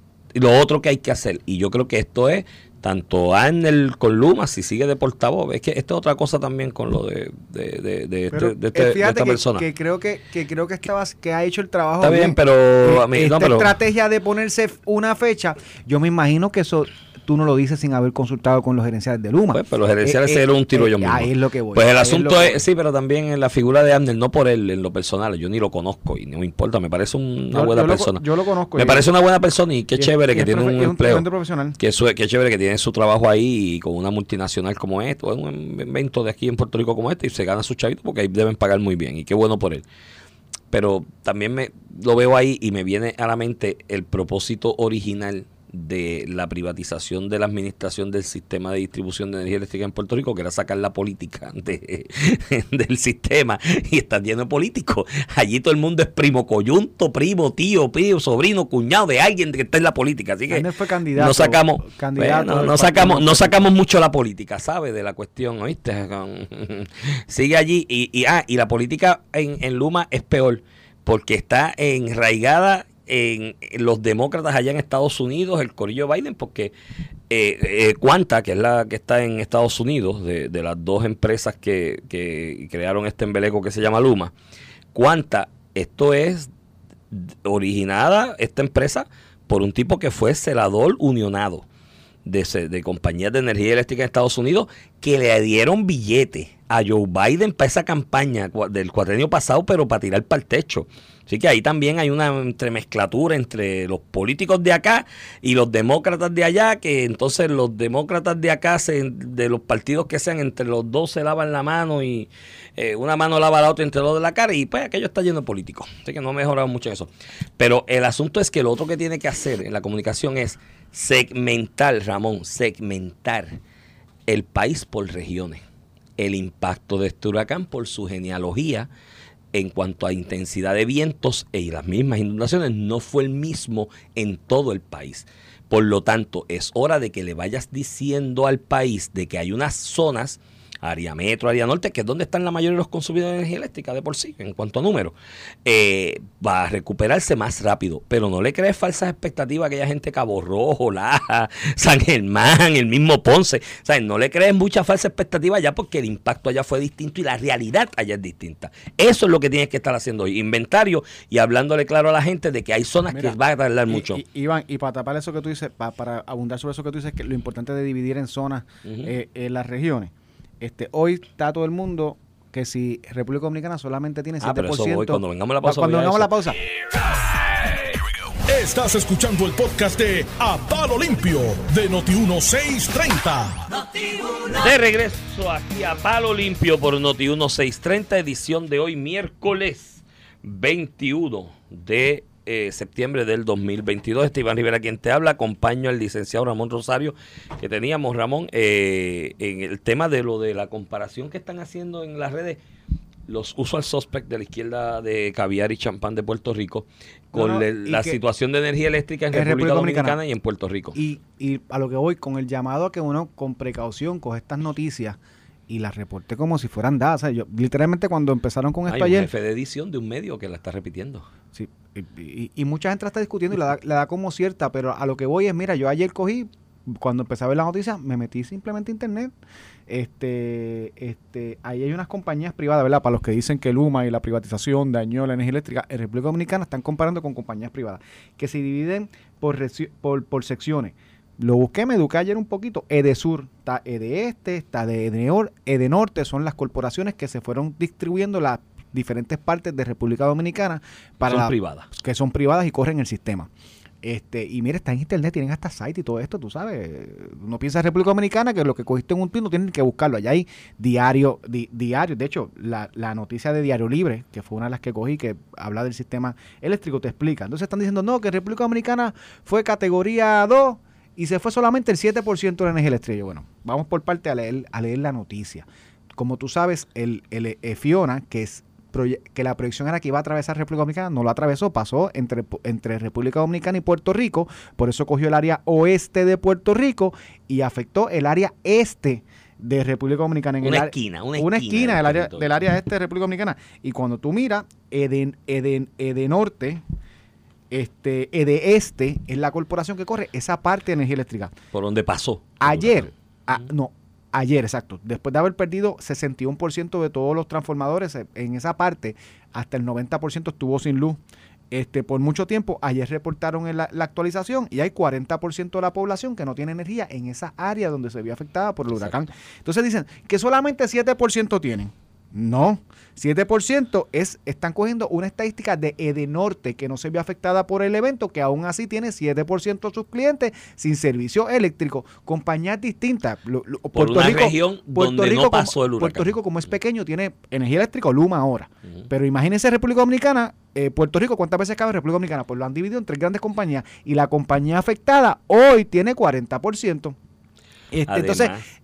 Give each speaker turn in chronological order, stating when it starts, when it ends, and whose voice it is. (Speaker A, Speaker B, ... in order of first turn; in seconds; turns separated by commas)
Speaker A: 0.3-9.7, Speaker B: 8.3-22.6, Speaker A: 12.0-13.7, Speaker A: 19.5-28.2, Speaker B: 27.5-29.1, Speaker A: 28.7-31.3, Speaker B: 30.0-31.8, Speaker A: 31.8-39.8, Speaker A: 40.7-76.7, Speaker B: 60.5-63.7, Speaker A: 77.3-84.3, Speaker A: 84.9-86.5, Speaker A: 87.1-91.7, Speaker A: 92.2-123.6, Speaker A: 124.3-125.6, Speaker A: 126.2-128.9, Speaker A: 129.5-164.2, Speaker B: 163.1-176.6, Speaker A: 168.8-169.1, Speaker A: 174.4-176.3, Speaker C: 178.5-183.8, Speaker A: 184.3-202.6, Speaker A: 203.3-211.0, Speaker B: 207.3-208.2, Speaker B: 209.3-210.2, Speaker B: 210.9-219.3, Speaker A: 218.9-221.2, Speaker B: 221.5-229.3, Speaker B: 229.9-253.5, Speaker A: 251.2-251.9, Speaker B: 254.0-296.8, Speaker A: 290.6-292.5, Speaker B: 297.7-301.5, Speaker A: 301.7-303.1, Speaker B: 302.6-347.2, Speaker A: 318.9-319.2, Speaker A: 333.9-336.4, Speaker B: 347.9-348.6, Speaker A: 348.1-348.6